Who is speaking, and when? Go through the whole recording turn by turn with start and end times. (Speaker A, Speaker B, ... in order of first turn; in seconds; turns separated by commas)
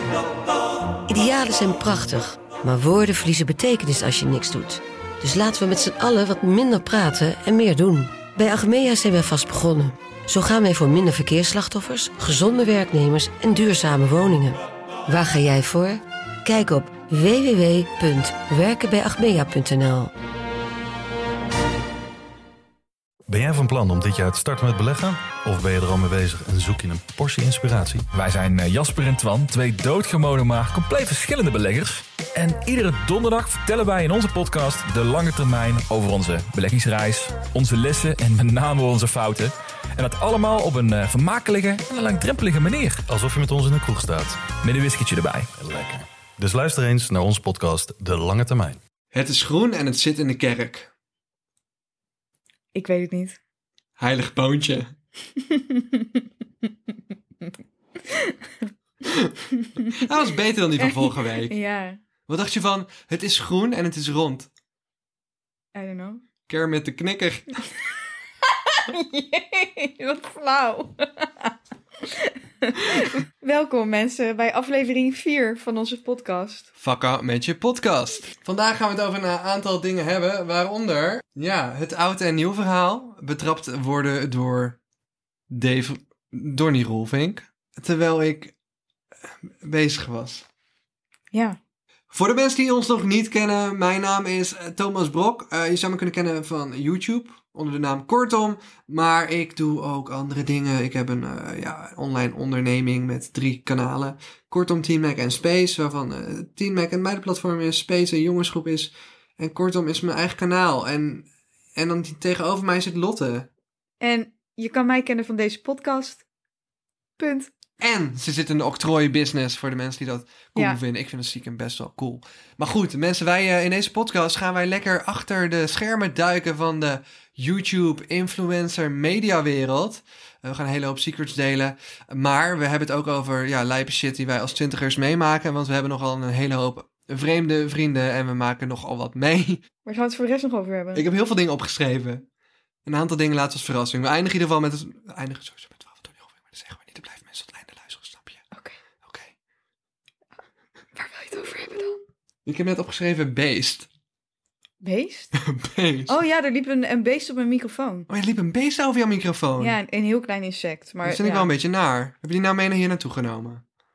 Speaker A: 1.1-20.1, Speaker B: 23.3-28.1, Speaker C: 28.1-43.0, Speaker B: 43.1-44.5, Speaker C: 44.6-45.5, Speaker B: 45.5-48.8, Speaker D: 49.1-50.9, Speaker E: 52.7-53.4, Speaker D: 54.0-54.9, Speaker E: 55.4-56.2, Speaker E: 58.1-58.7, Speaker E: 59.6-60.1, Speaker D: 59.9-61.6, Speaker E: 60.8-62.0, Speaker D: 62.3-64.5, Speaker E: 65.7-66.2, Speaker D: 66.5-67.6, Speaker E: 68.6-71.5, Speaker E: 72.0-76.7, Speaker D: 76.8-84.8, Speaker D: 85.5-88.5, Speaker D: 89.4-90.5, Speaker E: 91.3-91.6, Speaker D: 92.1-113.5, Speaker E: 114.0-116.2, Speaker E: 117.2-117.5, Speaker D: 117.8-139.6, Speaker E: 139.8-141.1, Speaker D: 140.9-142.2, Speaker D: 142.8-148.4, Speaker D: 149.0-149.3, Speaker E: 150.9-152.0, Speaker D: 152.4-153.9, Speaker E: 154.8-155.3, Speaker D: 155.3-156.2, Speaker E: 156.1-158.1, Speaker D: 158.1-159.8, Speaker E: 159.6-161.5, Speaker D: 161.0-163.6